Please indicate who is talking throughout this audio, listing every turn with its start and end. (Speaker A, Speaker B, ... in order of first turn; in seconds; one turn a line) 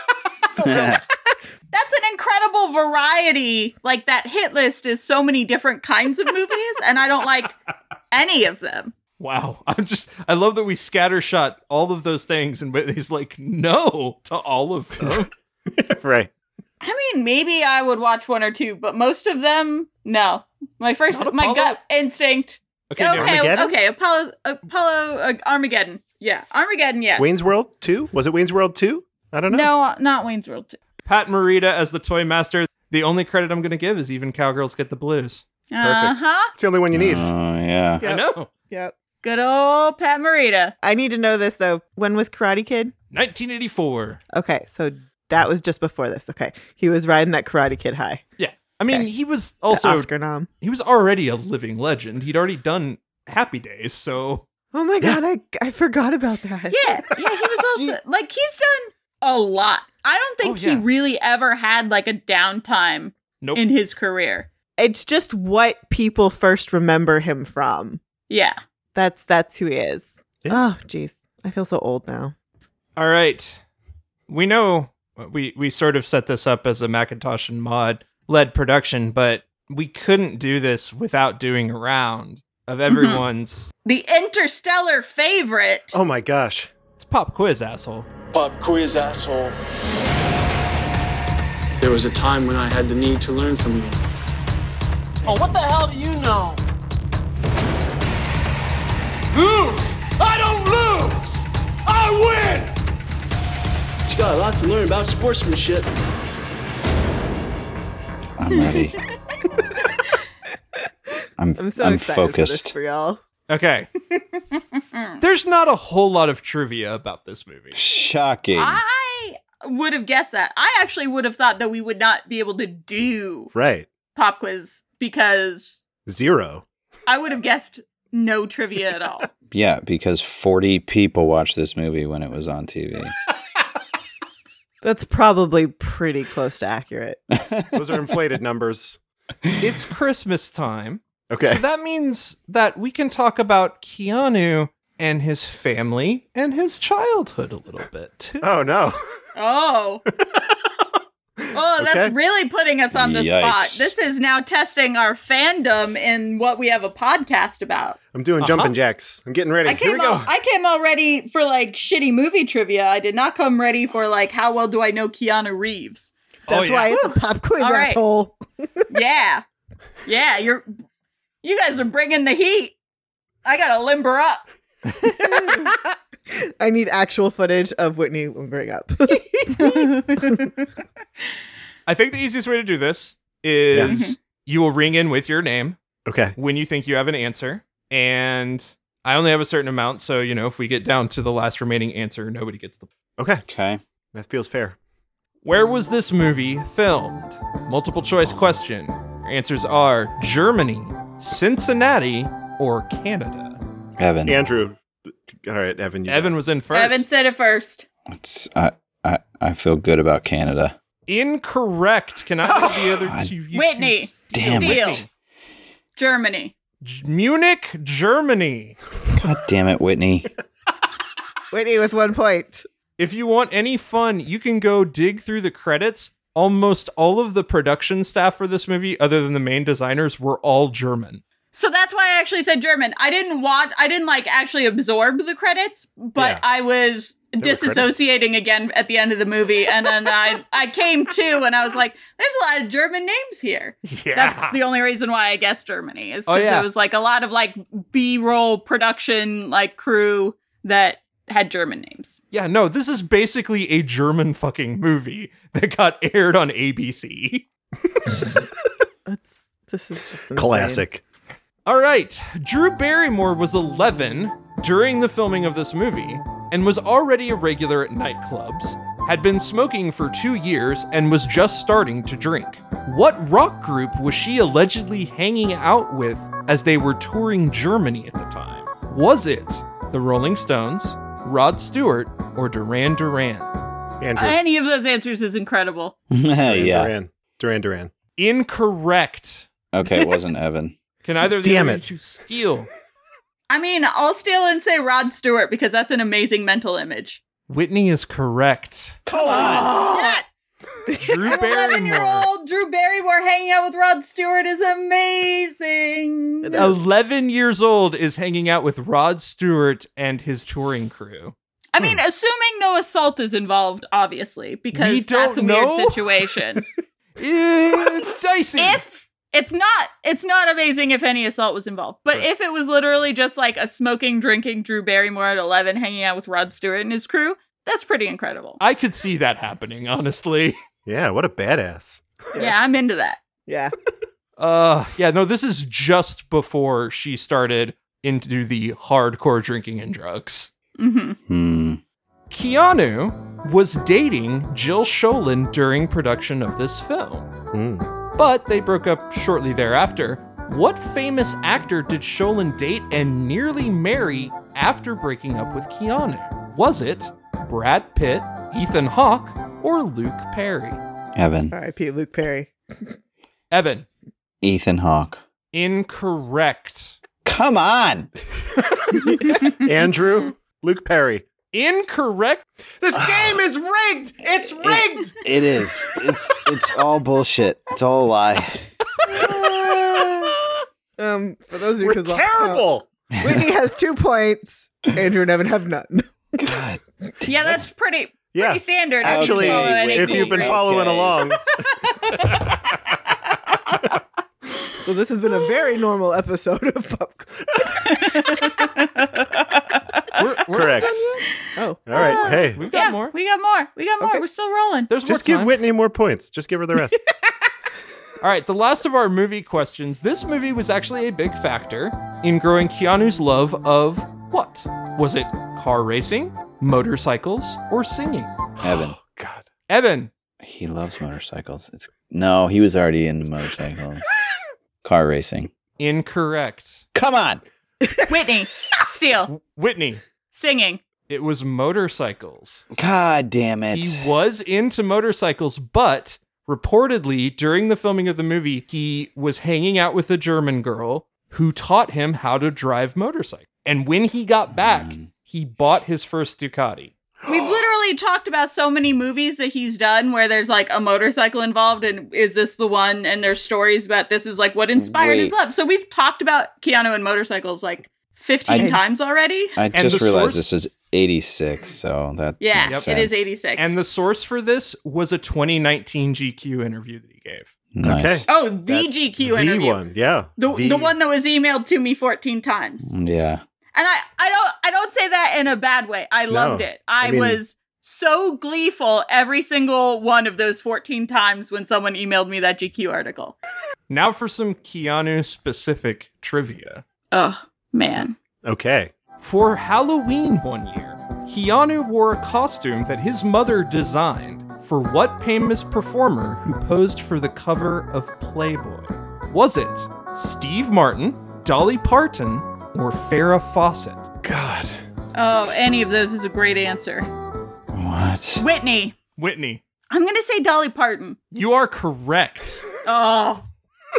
Speaker A: 0.6-1.0
Speaker B: 1.7-7.6
Speaker B: 8.1-8.9
Speaker C: 9.2-15.3
Speaker D: 15.0-16.3
Speaker B: 16.8-27.4
Speaker C: 21.1-21.8
Speaker C: 22.9-23.5
Speaker D: 23.1-23.8
Speaker D: 27.2-29.7
Speaker B: 29.5-30.8
Speaker C: 31.1-35.4
Speaker B: 35.7-36.5
Speaker D: 35.8-37.3
Speaker A: 36.9-38.0
Speaker E: 38.0-39.0
Speaker C: 38.0-38.5
Speaker B: 39.2-40.7
Speaker E: 40.8-42.9
Speaker C: 43.1-44.2
Speaker E: 44.3-48.2
Speaker C: 48.4-54.5
Speaker E: 49.7-50.5
Speaker E: 54.7-57.1
Speaker B: 56.7-64.5
Speaker C: 60.4-60.9
Speaker E: 64.8-68.0
Speaker B: 68.3-68.6
Speaker E: 69.0-72.4
Speaker C: 73.0-73.6
Speaker C: 74.3-83.7
Speaker B: 82.9-83.2
Speaker B: 83.8-86.0
Speaker D: 85.9-86.7
Speaker C: 87.0-88.1
Speaker F: 88.3-89.6
Speaker F: 91.8-94.0
Speaker F: 95.2-96.6
Speaker F: 99.3-101.3
Speaker F: 101.9-102.7
Speaker F: 104.1-105.9
Speaker A: 108.4-109.0
Speaker A: 111.4-112.8
Speaker E: 111.6-113.2
Speaker C: 113.5-113.9
Speaker B: 114.8-115.2
Speaker C: 115.2-117.8
Speaker A: 117.7-118.8
Speaker B: 118.5-123.5
Speaker D: 123.5-123.9
Speaker B: 124.2-125.8
Speaker D: 126.1-126.7
Speaker B: 127.1-129.3
Speaker A: 129.5-133.1
Speaker E: 134.8-137.2
Speaker A: 137.3-137.8
Speaker D: 137.7-139.0
Speaker C: 139.6-148.4
Speaker D: 141.3-141.6
Speaker D: 148.4-149.0
Speaker B: 149.4-150.0
Speaker B: 151.5-158.0
Speaker D: 151.8-152.2
Speaker A: 152.9-153.9
Speaker D: 158.1-160.3
Speaker C: 158.4-158.8
Speaker B: 159.7-166.1
Speaker C: 166.5-166.9
Speaker E: 166.5-168.9
Speaker B: 166.9-168.0
Speaker B: 168.9-169.4
Speaker B: 170.1-170.8
Speaker B: 171.4-172.8
Speaker B: 173.4-174.4
Speaker E: 175.2-175.8
Speaker E: 176.3-180.6
Speaker C: 181.9-185.8
Speaker B: 183.8-184.2
Speaker D: 186.1-186.3
Speaker C: 186.4-192.9
Speaker D: 193.2-193.4
Speaker A: 193.5-193.8
Speaker D: 194.1-194.8
Speaker C: 195.4-203.6
Speaker A: 204.0-204.4
Speaker D: 204.3-204.8
Speaker D: 205.4-206.4
Speaker C: 206.1-207.1
Speaker B: 206.7-207.9
Speaker A: 208.1-210.8
Speaker C: 211.1-215.1
Speaker A: 213.1-213.3
Speaker B: 213.5-215.0
Speaker A: 214.3-215.0
Speaker B: 216.0-216.5
Speaker C: 216.8-218.8
Speaker A: 219.2-220.3
Speaker E: 221.5-222.7
Speaker C: 223.0-231.2
Speaker B: 231.5-252.2
Speaker D: 236.2-236.4
Speaker D: 237.4-237.9
Speaker C: 243.9-244.6
Speaker C: 246.3-246.7
Speaker C: 252.3-257.4
Speaker E: 259.1-260.9
Speaker D: 260.4-261.0
Speaker C: 261.7-283.5
Speaker D: 284.0-284.4
Speaker B: 284.2-285.9
Speaker A: 286.1-286.9
Speaker D: 286.4-287.9
Speaker C: 288.2-289.5
Speaker A: 289.7-290.8
Speaker C: 291.0-292.7
Speaker D: 291.4-291.8
Speaker B: 293.5-297.2
Speaker C: 297.5-299.0
Speaker A: 299.1-299.8
Speaker D: 299.1-299.9
Speaker B: 299.3-300.2
Speaker E: 300.9-301.2
Speaker C: 301.0-302.3
Speaker B: 301.3-306.7
Speaker E: 306.4-306.8
Speaker C: 306.6-311.3
Speaker B: 311.7-316.6
Speaker C: 314.7-316.0
Speaker C: 317.2-318.8
Speaker B: 318.6-328.6
Speaker C: 328.6-330.6
Speaker D: 330.9-332.1
Speaker B: 332.4-333.2
Speaker E: 333.5-333.7
Speaker C: 334.4-340.5
Speaker B: 340.8-341.2
Speaker A: 341.3-341.8
Speaker C: 342.3-347.3
Speaker D: 347.5-347.9
Speaker C: 348.2-360.8
Speaker A: 361.2-361.5
Speaker E: 361.5-363.0
Speaker C: 363.5-363.9
Speaker A: 364.4-365.2
Speaker C: 365.5-367.0
Speaker A: 367.2-368.1
Speaker D: 368.7-371.2
Speaker C: 371.5-372.4
Speaker D: 372.8-375.1
Speaker A: 373.0-373.3
Speaker A: 374.6-378.6
Speaker D: 379.2-380.1
Speaker E: 381.0-382.6
Speaker D: 381.8-382.9
Speaker A: 383.1-383.4
Speaker E: 383.2-386.6
Speaker A: 386.4-387.6
Speaker B: 387.2-390.7
Speaker D: 388.3-391.7
Speaker A: 389.0-391.3
Speaker B: 391.8-392.2
Speaker E: 394.8-398.6
Speaker B: 397.9-399.4
Speaker C: 400.1-401.2
Speaker D: 400.5-401.1
Speaker E: 401.6-402.3
Speaker D: 401.9-402.6
Speaker B: 402.0-404.9
Speaker C: 402.5-403.1
Speaker C: 404.9-405.6
Speaker D: 405.1-407.1
Speaker C: 408.2-418.3
Speaker A: 418.6-419.0
Speaker D: 418.6-419.4
Speaker C: 419.7-420.1
Speaker A: 420.4-424.0
Speaker A: 424.8-425.5
Speaker C: 425.8-426.9
Speaker A: 426.9-427.4
Speaker B: 428.1-429.3
Speaker C: 429.3-430.0
Speaker B: 430.3-430.8
Speaker C: 431.1-432.6
Speaker A: 432.7-434.1
Speaker C: 433.7-446.9
Speaker A: 444.5-445.1
Speaker D: 447.2-447.6
Speaker B: 447.2-459.6
Speaker A: 454.8-455.4
Speaker A: 458.5-458.8
Speaker E: 458.6-458.8
Speaker A: 459.6-463.3
Speaker C: 459.7-460.5
Speaker B: 462.4-463.7
Speaker C: 463.5-467.5
Speaker A: 467.7-468.3
Speaker D: 467.8-470.9
Speaker B: 468.3-469.8
Speaker B: 470.4-472.9
Speaker A: 472.9-473.4
Speaker B: 473.7-483.4
Speaker D: 476.3-477.4
Speaker C: 483.9-486.8
Speaker B: 487.1-488.2
Speaker D: 488.4-488.9
Speaker C: 489.2-504.1
Speaker D: 504.2-504.8
Speaker B: 505.1-507.1
Speaker A: 507.7-508.4
Speaker B: 508.4-509.0
Speaker C: 509.2-509.6
Speaker B: 509.9-511.2
Speaker C: 511.3-512.7
Speaker B: 512.9-513.5